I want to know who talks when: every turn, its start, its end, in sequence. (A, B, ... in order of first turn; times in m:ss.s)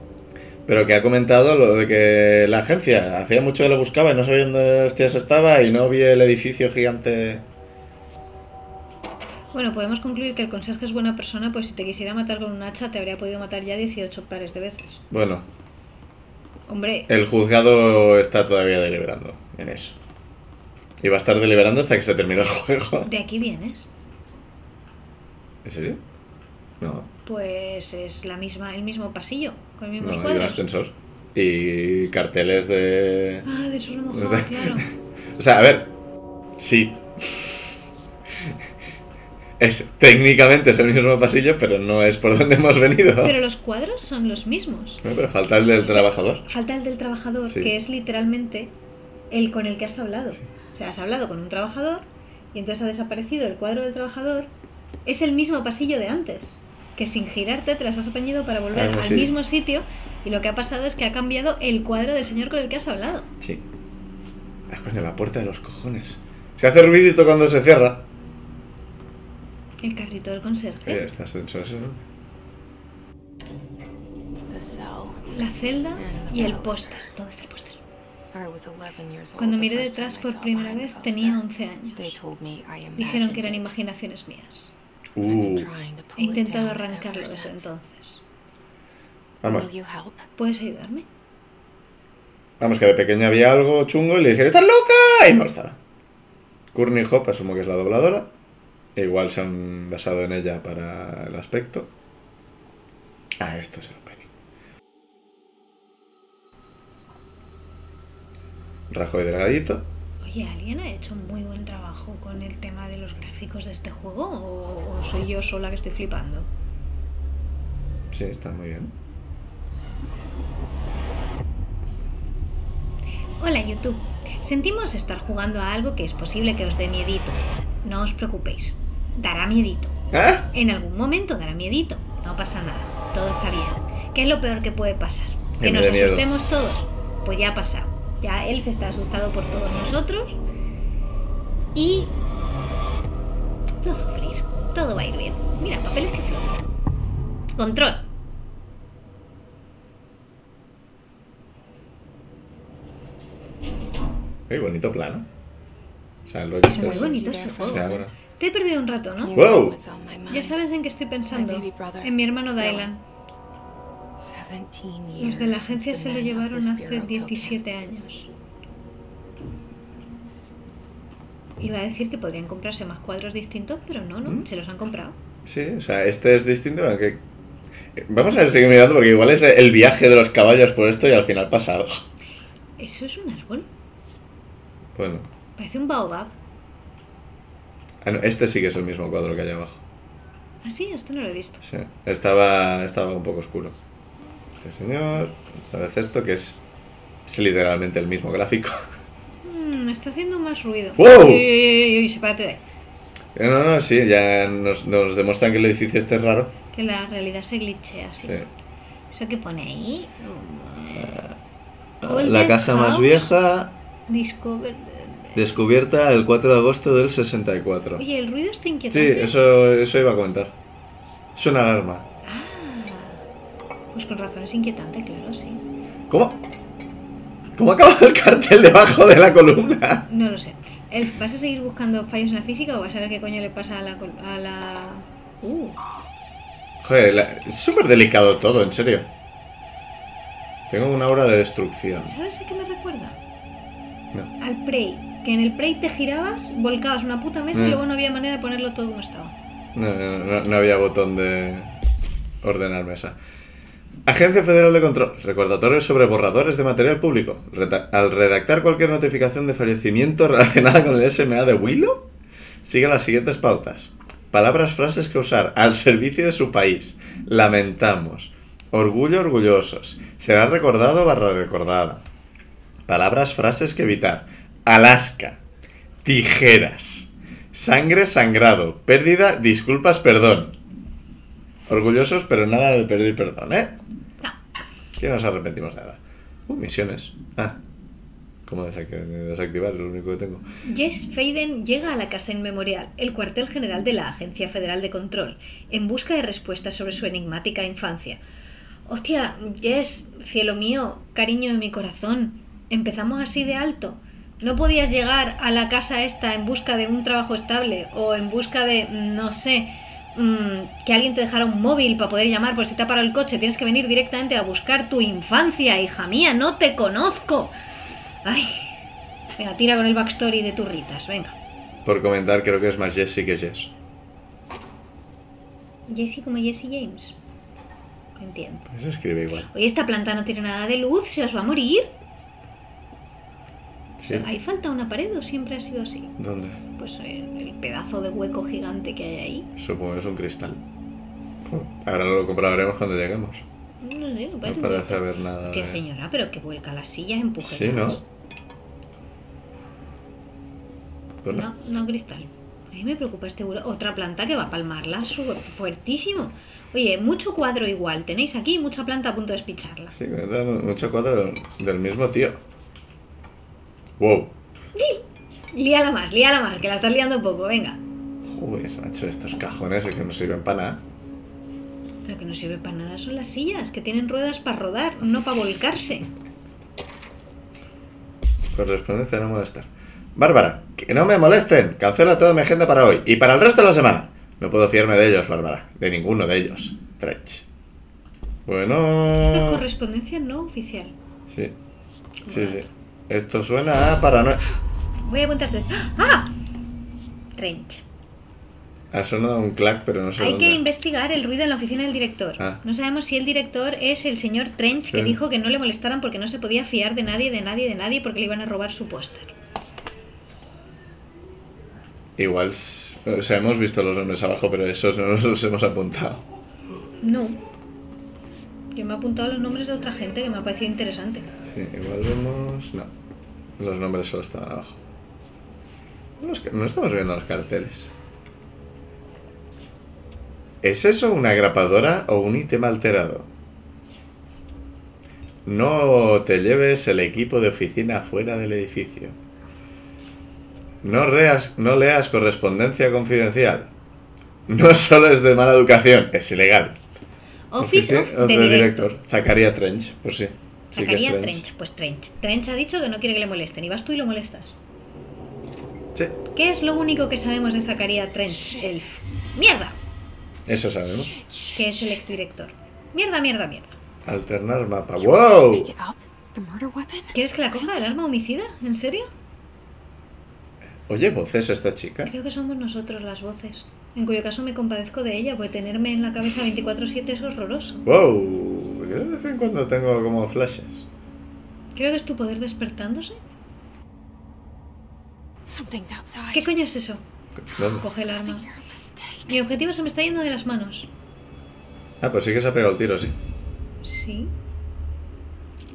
0:00.7-0:07.4 A
0:09.5-0:15.0 B
0:15.1-0:15.5 A
0:16.7-0:17.1 B
0:17.1-0:20.0 A
0:21.0-0:23.1 A
0:23.1-0:23.9 B
0:25.6-0:26.0 A
0:26.8-0:27.1 A
0:27.2-0:30.7 B
0:30.0-0:33.5 A
0:33.5-0:34.9 B
0:34.1-0:35.9 A
0:36.6-0:37.6 A
0:39.6-0:43.4 A
0:43.2-0:45.0 B
0:45.0-0:46.4 A
0:45.9-0:48.7 B
0:47.5-0:47.7 A
0:49.3-0:54.5 B
0:55.1-1:03.3 B
0:58.7-0:59.3 A
1:04.7-1:08.0 A
1:09.8-1:11.0 B
1:10.8-1:12.0 A
1:14.5-1:15.3 C
1:15.3-1:17.8 B
1:16.0-1:17.1 C
1:18.3-1:21.4 C
1:19.4-1:22.2 B
1:22.0-1:23.8 C
1:23.0-1:24.7 B
1:25.2-1:25.7 A
1:25.2-1:27.7 C
1:26.2-1:28.2 B
1:29.4-1:29.7 A
1:29.4-1:30.3 C
1:30.4-1:31.1 B
1:32.6-1:35.8 A
1:36.7-1:38.3 A
1:39.0-1:41.9 A
1:43.4-1:44.2 A
1:48.9-1:49.8 A
1:50.2-1:56.5 B
1:58.1-1:58.9 A
2:03.4-2:10.0 B
2:10.1-2:10.5 A
2:10.5-2:20.4 B
2:15.6-2:16.3 A
2:21.7-2:22.1 B
2:23.8-2:26.6 B
2:27.6-2:28.0 B
2:34.5-2:35.3 A
2:36.3-2:38.1 A
2:36.6-2:39.4 B
2:36.7-2:38.2 C
2:39.2-2:40.6 C
2:39.3-2:39.8 A
2:40.3-2:43.0 B
2:41.3-2:42.9 C
2:44.2-2:47.6 C
2:45.2-2:48.3 B
2:51.6-2:55.2 B
2:55.5-2:57.2 A
2:58.0-3:02.0 A
3:02.8-3:03.7 B
3:05.0-3:05.3 A
3:05.6-3:06.3 B
3:08.0-3:09.8 A
3:10.6-3:11.6 B
3:11.6-3:13.8 A
3:14.6-3:16.6 A
3:17.3-3:18.9 A
3:19.4-3:22.6 B
3:21.0-3:21.5 A
3:23.4-3:26.5 A
3:26.7-3:28.4 B
3:28.2-3:28.5 A
3:29.1-3:31.2 B
3:31.0-3:31.4 A
3:32.0-3:33.7 A
3:32.0-3:33.3 B
3:34.1-3:35.4 B
3:35.3-3:38.0 A
3:38.0-3:39.4 B
3:38.9-3:40.5 A
3:41.4-3:42.0 A
3:42.3-3:43.2 B
3:43.9-3:45.6 B
3:46.1-3:46.4 A
3:47.6-3:50.1 A
3:50.1-3:55.8 B
3:56.8-3:59.1 A
4:00.7-4:02.1 A
4:02.1-4:03.2 B
4:04.4-4:09.3 B
4:07.5-4:07.8 A
4:09.8-4:11.8 A
4:12.4-4:13.2 A
4:14.1-4:22.1 A
4:22.6-4:32.0 A
4:32.9-4:35.4 A
4:36.0-4:40.6 A
4:41.7-4:43.8 A
4:45.0-4:47.6 A
4:48.5-4:50.4 A
4:50.7-4:58.2 B
4:58.9-5:17.6 B
5:18.2-5:18.8 B
5:19.4-5:21.3 B
5:21.8-5:23.7 A
5:25.9-5:27.2 B
5:28.2-5:28.7 B
5:28.7-5:29.5 A
5:29.5-5:31.9 B
5:34.0-5:34.2 A
5:34.0-5:36.1 B
5:36.2-5:36.6 A
5:36.8-5:39.5 B
5:39.6-5:40.6 A
5:41.5-5:43.4 A
5:43.8-5:48.0 B
5:44.4-5:45.8 A
5:47.4-5:48.0 A
5:51.3-6:00.0 B
6:00.0-6:02.4 A
6:04.0-6:04.3 A
6:04.8-6:07.8 B
6:08.2-6:10.8 A
6:12.0-6:16.1 B
6:18.5-6:27.4 A
6:28.5-6:29.6 A
6:29.2-6:30.9 B
6:31.3-6:31.6 A
6:32.2-6:32.6 B
6:32.3-6:34.4 A
6:35.0-6:36.3 B
6:37.4-6:37.8 B
6:38.9-6:40.6 A
6:40.2-6:49.3 B
6:44.9-6:45.2 A
6:52.2-6:56.2 A
6:57.0-6:57.4 B
6:58.7-7:01.3 B
7:01.5-7:02.9 A
7:03.6-7:04.8 A
7:06.2-7:07.9 A
7:10.6-7:13.3 A
7:15.5-7:19.2 A
7:20.8-7:23.7 A
7:24.5-7:26.8 A
7:27.5-7:28.9 B
7:27.6-7:31.4 A
7:30.7-7:34.6 B
7:36.3-7:39.8 B
7:38.3-7:38.8 C
7:40.5-7:41.1 A
7:41.0-7:42.2 C
7:41.5-7:43.7 B
7:44.1-7:45.7 A
7:45.0-7:47.9 C
7:47.1-7:49.1 B
7:50.9-7:52.1 A
7:52.1-7:57.8 B
7:57.8-8:00.9 A
8:01.8-8:03.2 B
8:05.5-8:06.5 C
8:06.3-8:07.0 B
8:07.4-8:07.8 A
8:07.5-8:09.3 C
8:07.6-8:08.4 B
8:09.3-8:10.9 B
8:12.0-8:13.2 A
8:13.8-8:14.3 B